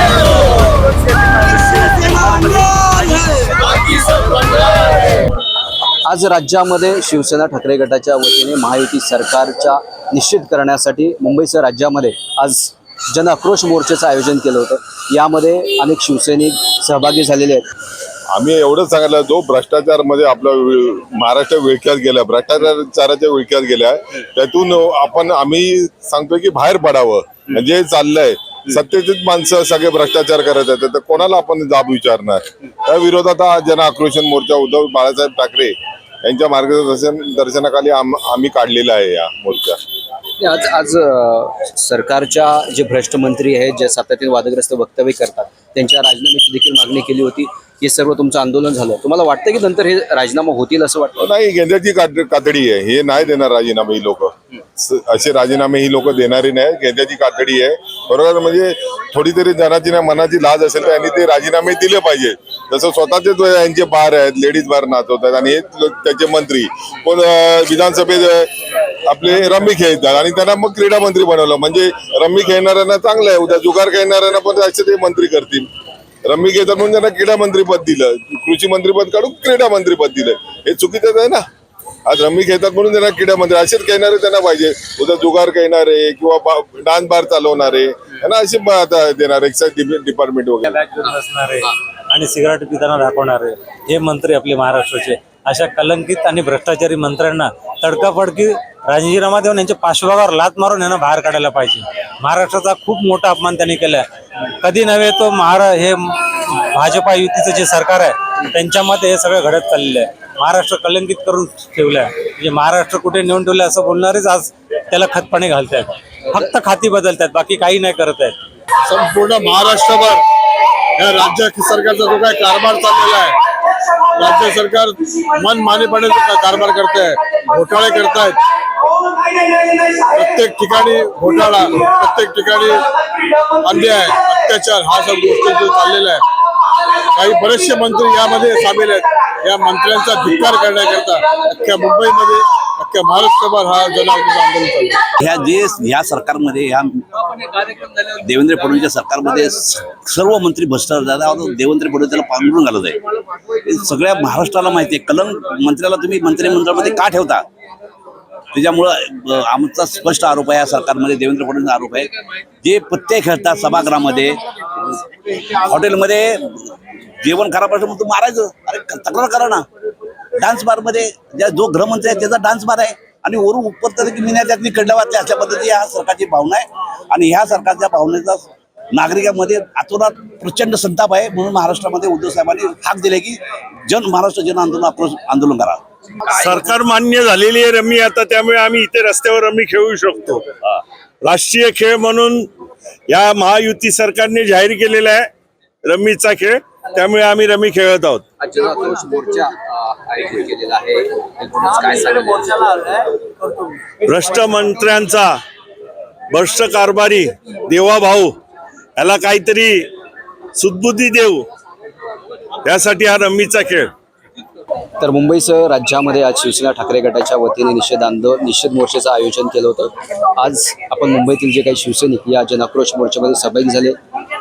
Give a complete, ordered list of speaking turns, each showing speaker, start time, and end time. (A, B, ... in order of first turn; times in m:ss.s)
0:00.1-0:04.0 A
0:06.0-0:17.7 A
0:18.3-0:39.8 B
0:40.4-0:51.2 A
0:51.2-1:08.5 B
1:09.0-1:15.7 B
1:16.2-1:21.4 B
1:22.0-1:30.7 B
1:30.6-1:44.0 C
1:44.6-1:58.4 C
1:58.9-2:00.2 D
2:01.0-2:03.4 D
2:04.2-2:08.4 D
2:10.0-2:12.8 D
2:13.6-2:16.2 D
2:17.1-2:25.0 D
2:25.2-2:37.4 E
2:38.5-2:49.6 E
2:50.4-3:05.8 E
3:06.3-3:12.5 F
3:13.1-3:15.3 F
3:15.8-3:18.2 F
3:18.4-3:23.6 A
3:24.0-3:25.4 F
3:26.3-3:28.4 F
3:29.0-3:29.9 F
3:30.5-3:31.5 F
3:32.6-3:33.9 F
3:35.0-3:44.0 A